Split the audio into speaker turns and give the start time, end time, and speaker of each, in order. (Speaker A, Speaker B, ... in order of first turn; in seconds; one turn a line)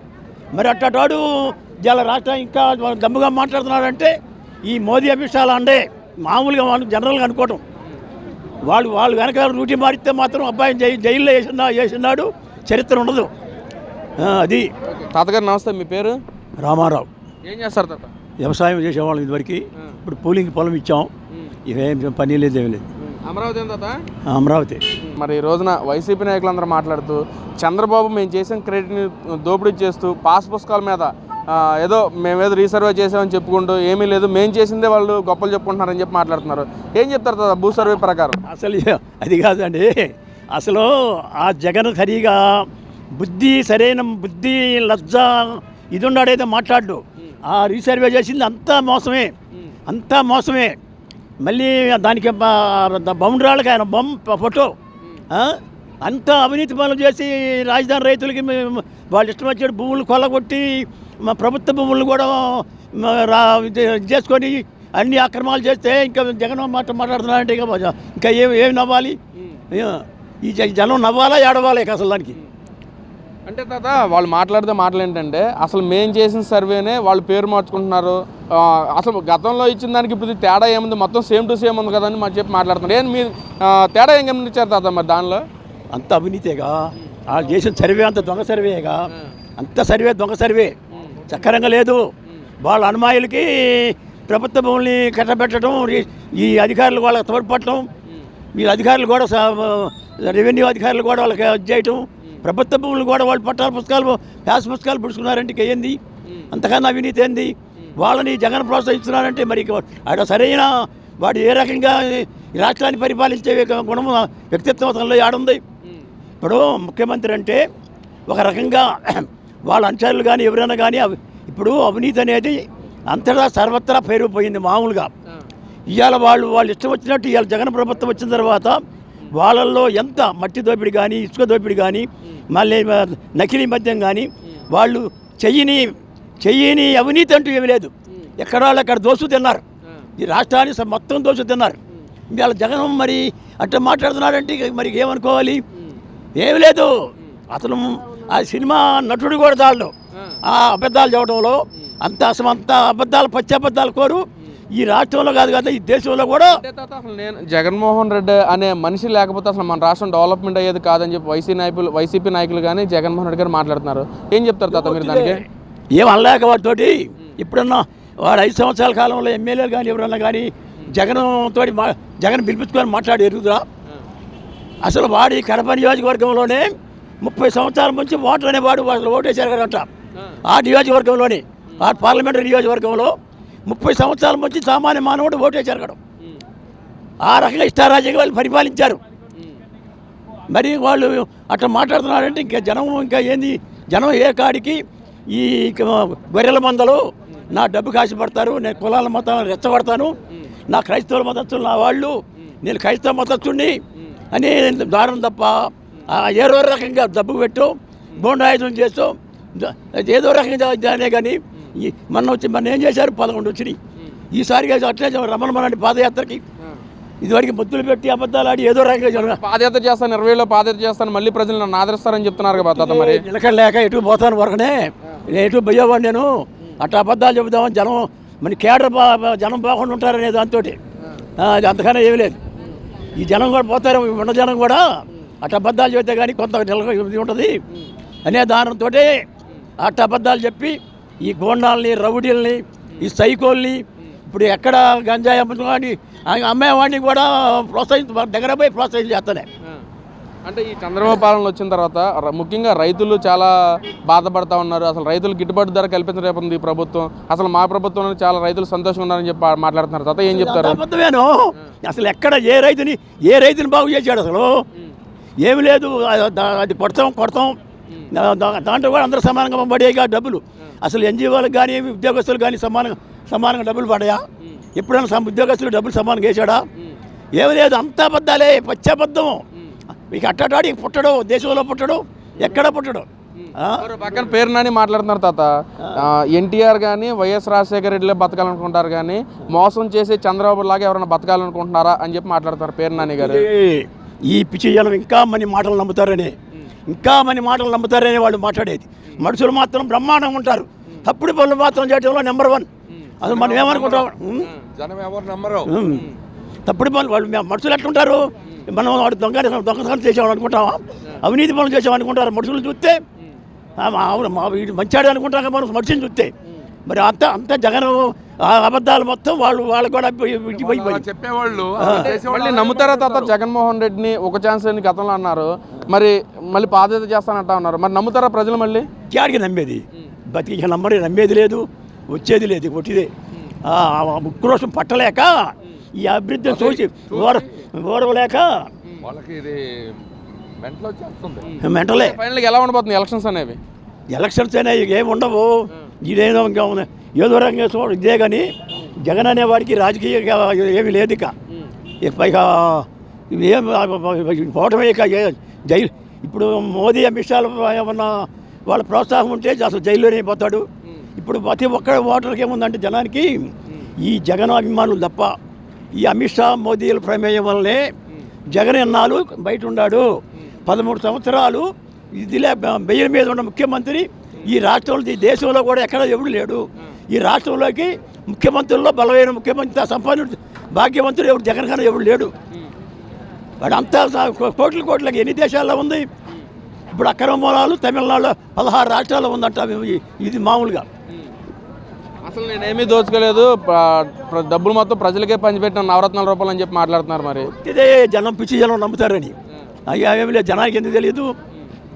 Speaker A: 0.5-4.1
Speaker A: 4.7-7.6
Speaker A: 8.7-13.3
Speaker A: 14.2-14.7
Speaker B: 14.8-16.2
Speaker A: 16.6-17.1
Speaker B: 17.4-18.1
Speaker A: 18.4-21.1
Speaker A: 21.7-22.9
Speaker B: 23.0-24.1
Speaker A: 24.2-24.8
Speaker B: 24.9-38.4
Speaker A: 38.4-42.6
Speaker A: 43.2-49.3
Speaker A: 49.9-50.8
Speaker A: 51.4-54.7
Speaker A: 55.3-69.2
Speaker A: 69.7-72.4
Speaker B: 73.5-85.5
Speaker A: 85.9-90.8
Speaker B: 90.9-91.2
Speaker A: 91.3-92.0
Speaker A: 92.6-97.9
Speaker A: 98.5-106.0
Speaker A: 106.5-115.6
Speaker A: 116.4-117.6
Speaker A: 118.3-125.1
Speaker A: 125.9-139.6
Speaker A: 140.2-141.8
Speaker A: 142.3-145.6
Speaker A: 146.4-146.9
Speaker A: 147.5-149.9
Speaker A: 150.4-156.6
Speaker B: 156.5-165.4
Speaker A: 164.7-173.7
Speaker A: 174.8-179.9
Speaker A: 180.4-183.1
Speaker A: 183.7-186.0
Speaker A: 187.2-189.0
Speaker A: 190.5-200.2
Speaker A: 200.7-203.8
Speaker A: 204.3-213.8
Speaker A: 214.3-216.4
Speaker A: 217.2-219.4
Speaker B: 219.2-223.2
Speaker A: 222.5-230.8
Speaker A: 231.4-232.4
Speaker A: 233.2-234.8
Speaker A: 235.4-237.6
Speaker A: 238.2-239.1
Speaker A: 239.8-249.5
Speaker B: 250.4-260.8
Speaker A: 260.3-264.5
Speaker A: 265.4-267.6
Speaker A: 268.1-274.2
Speaker A: 274.8-276.6
Speaker A: 277.4-279.4
Speaker A: 280.1-283.9
Speaker B: 283.4-293.5
Speaker A: 285.8-286.1
Speaker A: 293.0-296.4
Speaker A: 296.9-302.7
Speaker B: 302.9-304.6
Speaker A: 303.2-304.5
Speaker C: 303.6-304.0
Speaker C: 304.7-305.8
Speaker A: 305.7-306.1
Speaker B: 305.9-306.2
Speaker A: 306.7-313.0
Speaker A: 313.8-316.3
Speaker A: 316.9-321.1
Speaker C: 320.5-323.3
Speaker A: 321.8-322.1
Speaker B: 321.8-328.9
Speaker A: 329.1-333.1
Speaker A: 333.7-338.7
Speaker C: 336.5-337.4
Speaker C: 339.0-340.0
Speaker C: 340.6-341.6
Speaker B: 341.4-343.6
Speaker A: 341.6-342.2
Speaker A: 344.1-351.3
Speaker A: 352.0-360.7
Speaker A: 361.2-363.4
Speaker A: 364.0-365.3
Speaker A: 366.0-367.9
Speaker A: 368.5-370.1
Speaker A: 370.7-382.3
Speaker A: 383.6-386.1
Speaker A: 386.9-390.9
Speaker B: 392.2-397.5
Speaker A: 397.4-399.3
Speaker A: 399.9-401.3